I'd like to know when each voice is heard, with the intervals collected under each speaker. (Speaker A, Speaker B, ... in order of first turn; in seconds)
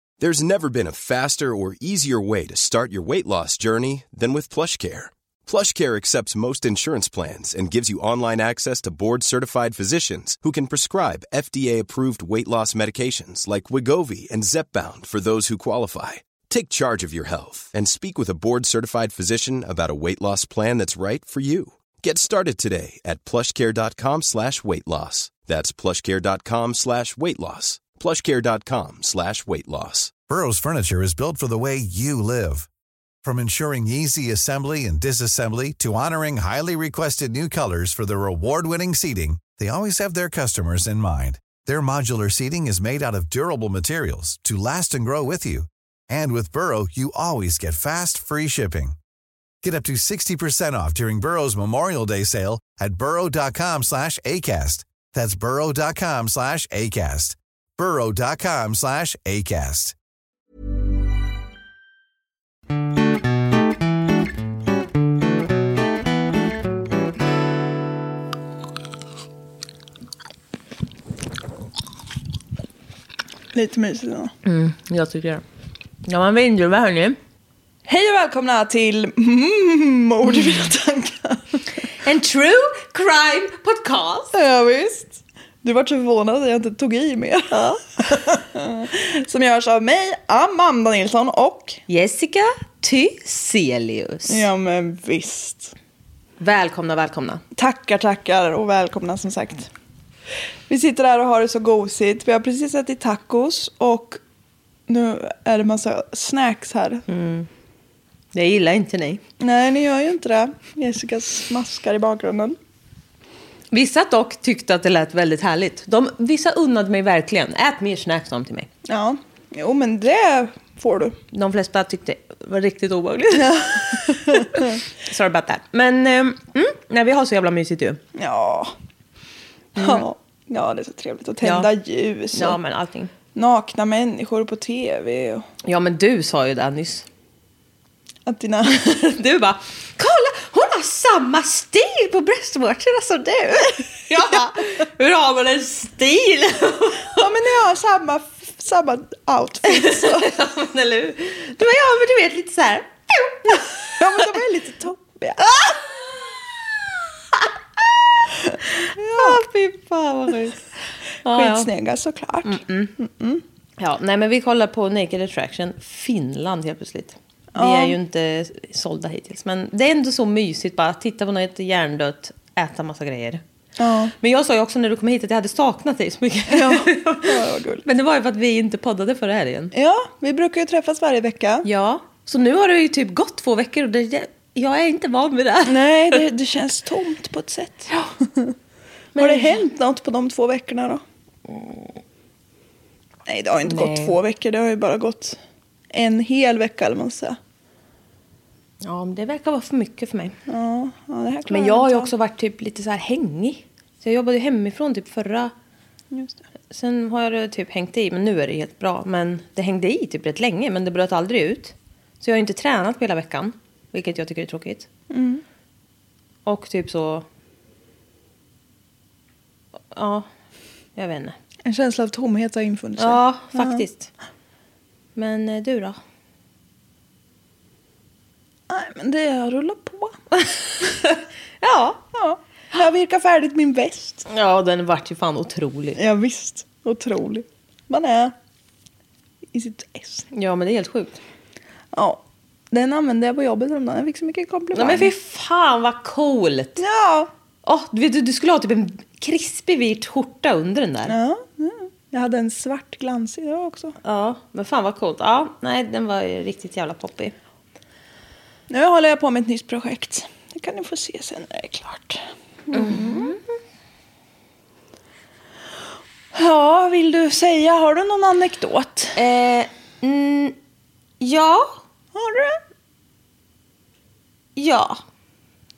Speaker A: 0.2-30.1
Speaker B: 30.3-32.7, 33.2-49.0, 49.6-59.9
Speaker C: 73.5-74.3, 77.8-81.6, 84.3-91.8, 94.3-95.7, 97.5-99.7, 100.7-104.2, 104.9-107.0, 109.4-112.6, 118.9-121.2, 123.4-124.7, 128.2-128.7, 129.8-132.6, 133.3-135.4, 138.2-138.8, 147.2-150.3, 154.0-155.8, 158.5-159.4, 161.3-163.4, 167.5-167.9, 173.8-174.1, 176.5-177.8, 179.7-181.7, 185.7-188.5, 189.2-191.0, 193.3-195.4, 195.9-197.4, 200.5-202.1, 206.1-206.4, 215.1-215.4, 221.6-223.8, 228.7-230.1, 232.1-234.2, 235.9-238.3, 239.5-240.2, 241.9-245.1, 246.8-247.3, 251.1-253.9, 258.7-263.3, 266.3-269.2, 272.1-272.6
Speaker D: 74.4-75.4, 76.0-77.2, 82.0-84.3, 87.5-87.8, 91.9-94.5, 96.4-97.4, 107.1-107.5, 108.3-109.2, 113.7-118.7, 121.3-128.0, 129.8-130.0, 131.4-131.7, 132.3-133.1, 135.6-137.1, 138.7-147.2, 149.6-153.7, 159.0-160.6, 161.2-161.7, 162.4-162.9, 163.8-173.4, 174.2-179.7, 181.6-186.2, 189.1-189.6, 193.6-194.2, 198.8-200.4, 201.5-205.5, 206.7-214.9, 216.4-217.2, 219.9-220.3, 220.9-221.3, 223.0-224.1, 225.2-226.0, 230.4-232.0, 234.3-236.0, 240.3-241.2, 244.7-246.8, 247.6-251.1, 254.0-257.3, 262.7-263.4, 269.1-270.6, 271.2-271.8, 274.6-275.0